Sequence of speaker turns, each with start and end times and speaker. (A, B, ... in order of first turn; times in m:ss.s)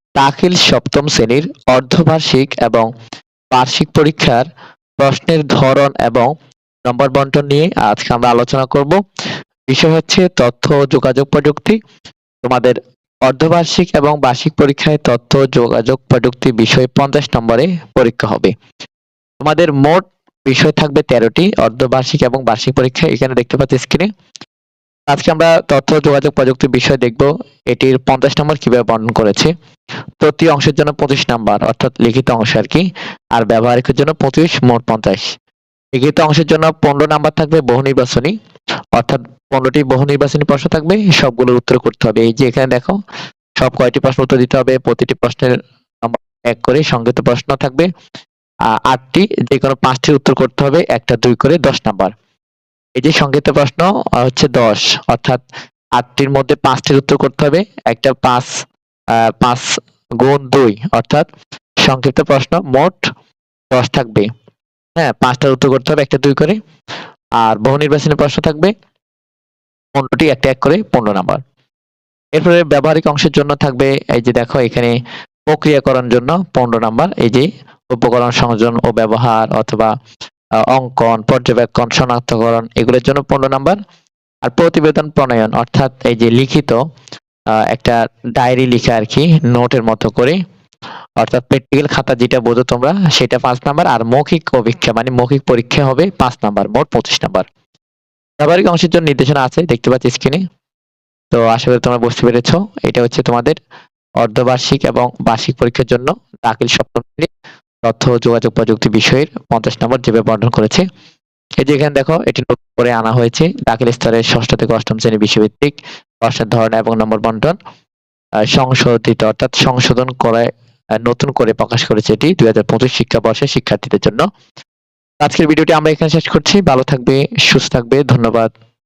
0:00.2-0:02.9 A
0:03.5-0:04.5 A
0:05.0-0:06.3 A
0:06.8-0:09.0 A
0:09.7-0:11.8 A
0:12.4-0:18.5 A
0:19.4-0:24.1 A
0:25.1-0:29.5 A
0:30.2-0:35.2 A
0:36.0-0:38.3 A
0:39.0-0:43.0 A
0:43.6-0:47.9 A
0:48.7-0:52.1 A
0:53.0-0:55.4 A
0:56.0-0:58.5 A
0:59.1-1:01.3 A
1:01.8-1:03.1 A
1:03.7-1:04.3 A
1:05.0-1:06.6 A
1:07.4-1:08.7 A
1:10.0-1:11.4 A
1:12.3-1:15.0 A
1:15.5-1:19.9 A
1:20.7-1:23.8 A
1:24.4-1:26.8 A
1:27.5-1:30.4 A
1:31.2-1:37.4 A
1:38.4-1:40.4 A
1:41.3-1:43.6 A
1:44.2-1:47.3 A
1:47.8-1:50.8 A
1:51.6-1:57.6 A
1:58.5-2:00.5 A
2:01.0-2:04.2 A
2:05.2-2:08.5 A